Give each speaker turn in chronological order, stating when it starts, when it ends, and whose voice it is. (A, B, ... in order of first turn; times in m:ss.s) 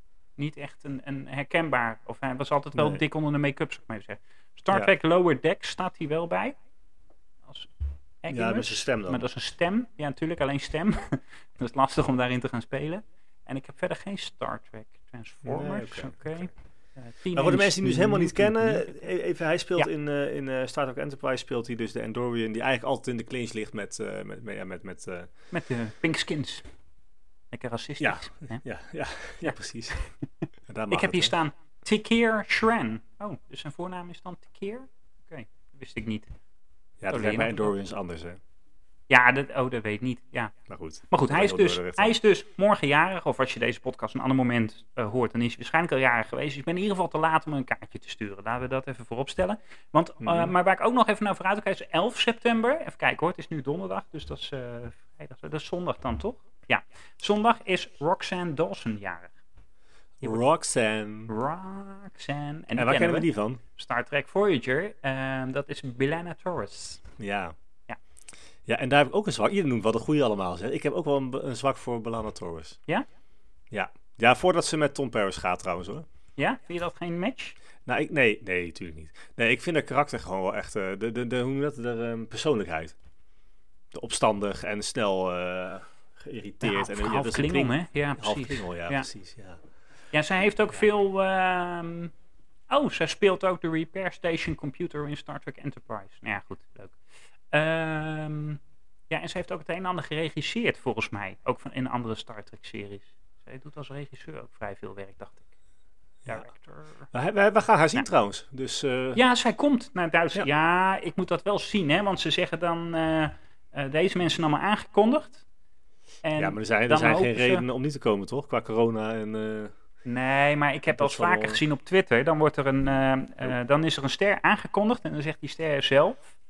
0:00.4-0:06.6 A
0:02.8-0:03.0 B
0:08.2-0:19.0 A
0:08.3-0:09.2 B
0:15.4-0:16.4 B
0:17.3-0:25.3 B
0:25.5-0:26.6 A
0:27.5-0:28.6 A
0:28.0-0:30.0 B
0:30.7-0:31.3 B
0:30.9-0:36.3 A
0:37.0-0:38.4 B
0:37.1-0:37.7 A
0:39.1-0:40.5 A
0:40.7-0:42.2 B
0:41.1-0:59.3 A
0:50.2-0:50.5 B
1:00.2-1:01.3 B
1:01.3-1:07.0 A
1:02.8-1:03.6 B
1:07.2-1:07.5 B
1:08.7-1:12.8 B
1:13.7-1:16.0 B
1:16.4-1:17.6 A
1:17.9-1:23.0 B
1:23.9-1:29.6 B
1:26.6-1:29.1 A
1:30.1-1:32.1 A
1:32.7-1:37.0 A
1:37.5-1:45.5 A
1:46.3-1:47.1 A
1:47.1-1:49.2 B
1:49.2-1:55.4 A
1:56.2-1:57.6 A
1:56.4-1:59.7 B
2:00.0-2:06.2 A
2:00.9-2:01.6 B